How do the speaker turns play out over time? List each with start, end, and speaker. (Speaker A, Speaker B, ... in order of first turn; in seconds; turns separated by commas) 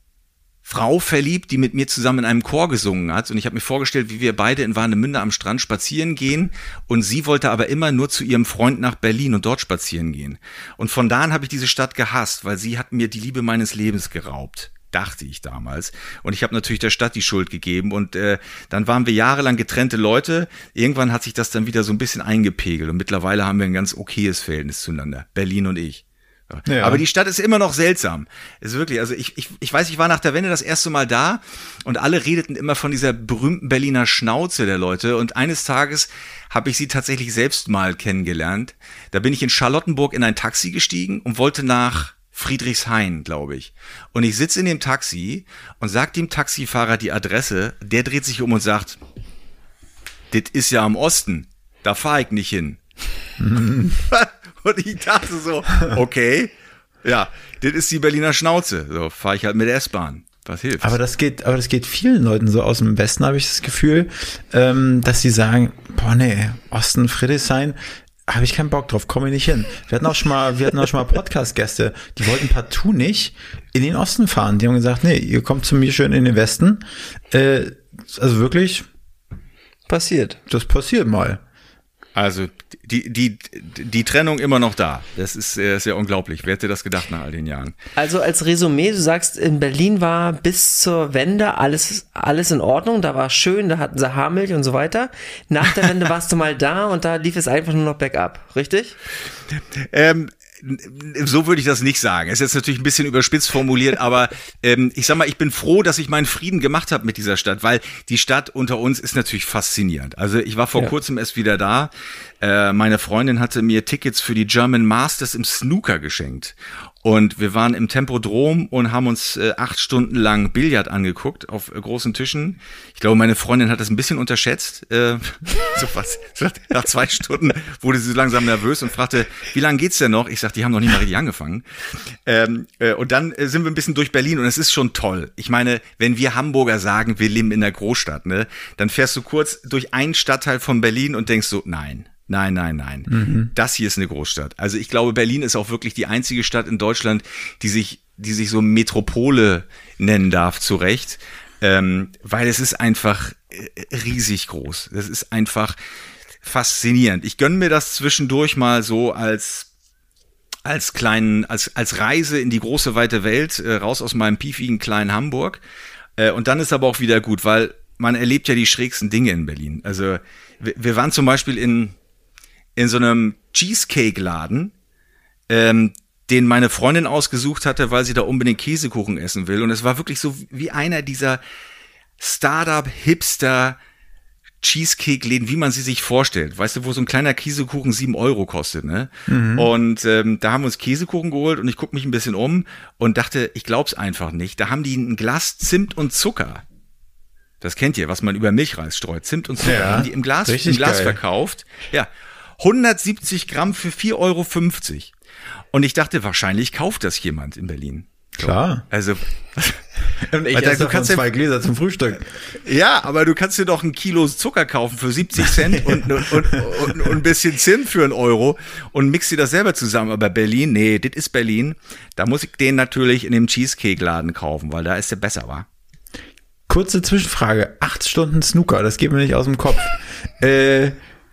Speaker A: 0.7-49.0, Speaker B: 26.7-27.0, Speaker A: 50.3-52.8, Speaker B: 53.4-54.0, Speaker A: 54.0-56.5, Speaker A: 57.0-61.0, Speaker B: 60.8-78.9, Speaker C: 79.9-80.4, Speaker B: 80.5-81.4, Speaker A: 82.2-87.8, Speaker C: 88.0-99.0, Speaker A: 99.8-131.7, Speaker A: 132.3-155.8, Speaker B: 143.1-143.5, Speaker A: 156.4-159.7, Speaker A: 160.7-165.6, Speaker A: 166.2-171.9, Speaker A: 172.8-174.7, Speaker A: 175.5-181.4, Speaker A: 182.2-183.8, Speaker A: 184.6-196.6, Speaker B: 189.3-189.7, Speaker A: 197.6-205.1, Speaker B: 199.6-201.2, Speaker A: 205.7-209.8, Speaker B: 208.4-208.8, Speaker B: 210.2-212.4, Speaker A: 210.5-211.3, Speaker A: 212.6-225.7, Speaker B: 215.9-217.1, Speaker B: 226.7-231.0